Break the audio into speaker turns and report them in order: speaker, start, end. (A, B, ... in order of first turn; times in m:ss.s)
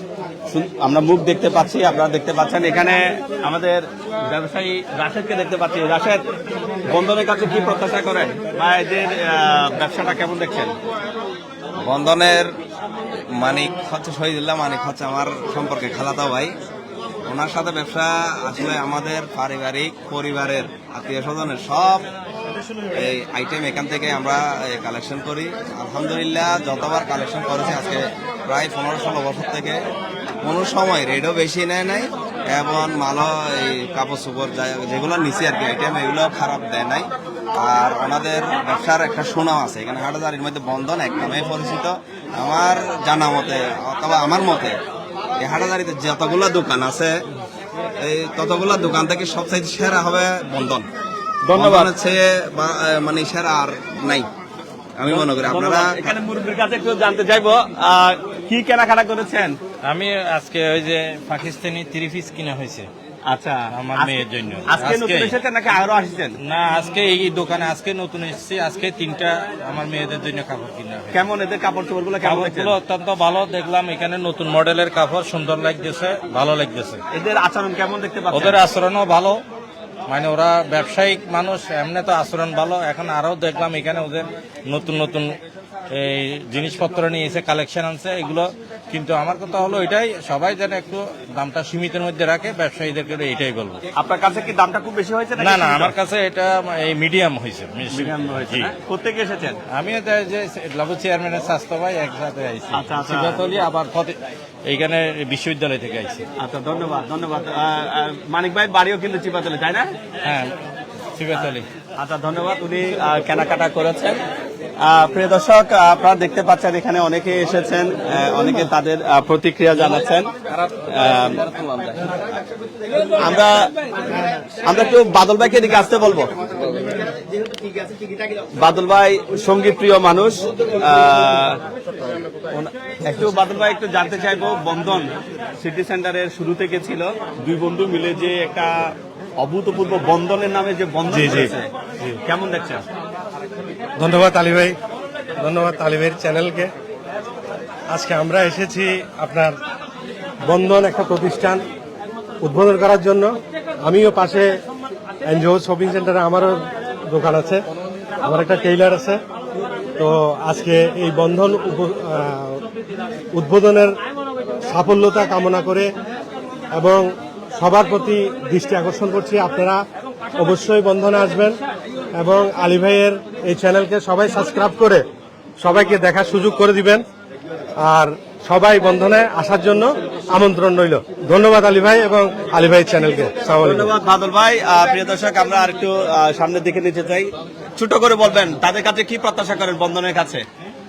0:00.5-0:06.2 A
0:06.9-0:10.7 A
0:11.8-0:12.5 B
0:13.3-0:16.5 B
0:17.2-0:22.0 B
0:22.9-0:29.8 B
0:30.4-0:44.7 B
0:45.4-0:47.1 B
0:48.0-0:50.8 B
0:51.5-0:54.3 B
0:51.5-0:51.9 A
0:55.0-0:56.1 B
0:55.0-0:59.6 A
0:59.8-1:02.9 C
1:03.3-1:06.4 A
1:03.7-1:05.3 C
1:06.4-1:11.1 C
1:11.1-1:12.8 A
1:12.2-1:17.0 C
1:17.1-1:18.6 A
1:18.3-1:19.4 C
1:20.1-1:25.3 C
1:25.9-1:33.8 C
1:34.0-1:35.9 A
1:35.4-1:38.7 C
1:37.9-1:39.6 A
1:39.7-1:44.2 C
1:42.7-1:43.4 A
1:44.7-1:46.2 C
1:46.4-1:49.9 A
1:50.2-1:50.5 C
1:51.2-1:51.6 C
1:52.0-1:54.2 A
1:54.8-2:00.3 A
2:00.8-2:01.5 A
2:03.2-2:03.7 A
2:04.6-2:06.3 A
2:08.6-2:11.6 A
2:12.5-2:21.7 A
2:21.1-2:21.5 D
2:22.2-2:22.8 A
2:24.0-2:24.7 D
2:25.4-2:26.7 D
2:27.9-2:29.5 D
2:30.5-2:31.6 D
2:32.4-2:33.3 D
2:33.8-2:34.5 D
2:35.3-2:37.6 D
2:38.2-2:39.2 D
2:40.0-2:42.6 D
2:43.3-2:43.9 D
2:44.7-2:45.9 D
2:46.7-2:49.8 D
2:50.4-2:51.6 D
2:52.2-2:55.0 D
2:55.6-2:57.0 D
2:57.8-3:03.9 D
3:03.6-3:10.4 A